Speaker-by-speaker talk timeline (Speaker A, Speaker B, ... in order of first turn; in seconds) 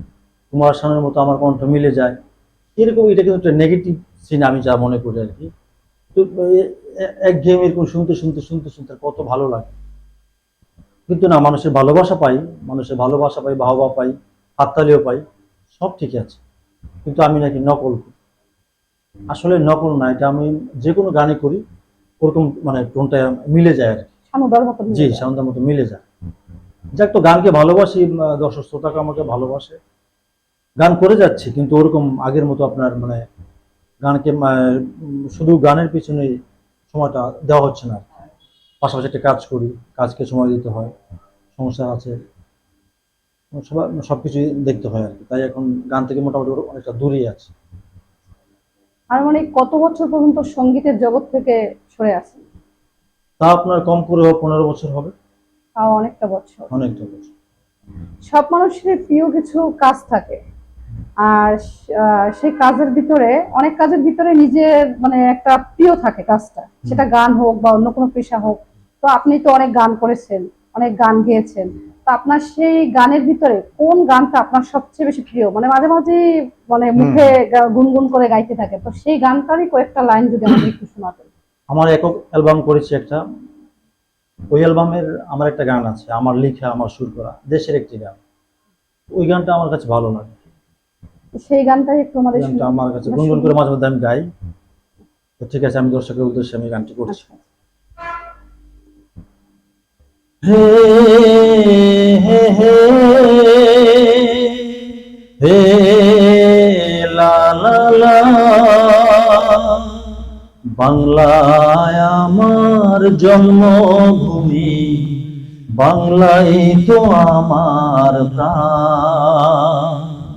Speaker A: 0.5-2.2, 2.8-5.5, 6.1-9.8, 11.1-15.2, 15.7-16.4, 17.1-18.1, 19.3-21.6, 22.2-24.1, 24.9-26.0, 27.0-29.8, 30.8-33.2, 34.0-36.3, 36.9-38.0, 38.8-40.9, 41.5-42.1, 43.5-47.5, 53.4-55.1, 56.7-57.3, 77.0-77.3, 81.7-83.2, 84.5-88.2, 89.2-90.4, 92.3-94.3, 95.4-97.3, 100.4-104.5, 105.4-109.8, 110.8-115.1, 115.8-120.1
Speaker B: 24.3-25.2, 49.1-52.4, 55.8-56.7, 58.3-60.4, 61.2-81.3, 91.4-93.5, 97.1-97.4